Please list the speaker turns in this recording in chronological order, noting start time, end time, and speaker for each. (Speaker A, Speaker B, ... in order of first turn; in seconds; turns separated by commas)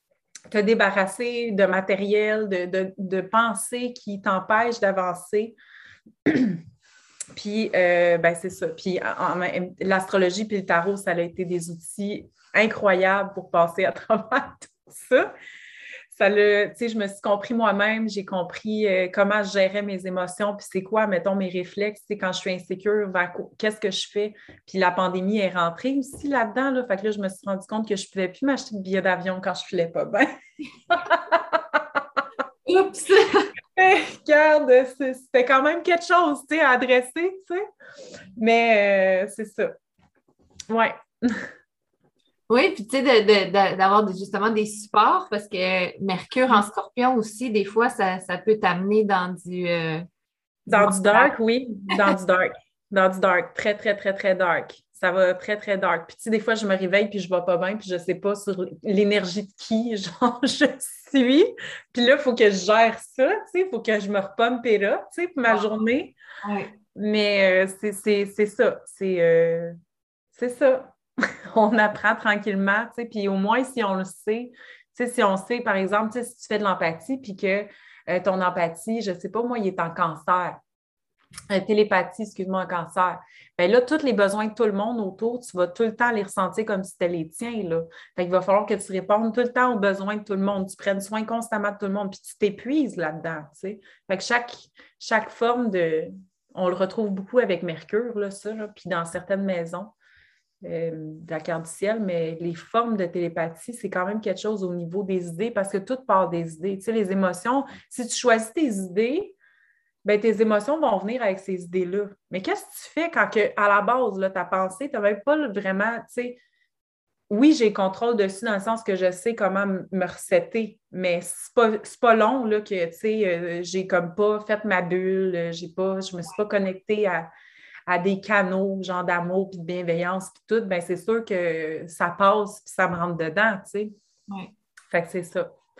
Speaker A: 0.5-5.5, Speaker A: 6.2-6.6, Speaker A: 7.3-15.3, Speaker A: 16.1-30.3, Speaker A: 30.9-32.0, Speaker B: 32.6-33.5, Speaker A: 33.7-37.6, Speaker A: 38.4-39.7, Speaker A: 40.7-41.5, Speaker B: 42.5-50.0, Speaker B: 50.7-51.3, Speaker A: 50.7-66.2, Speaker B: 66.4-66.7, Speaker A: 66.9-69.7, Speaker A: 70.3-80.6, Speaker A: 81.5-99.9, Speaker A: 100.6-109.3, Speaker A: 110.0-116.4, Speaker A: 117.3-127.3, Speaker A: 127.9-133.9, Speaker A: 134.9-135.5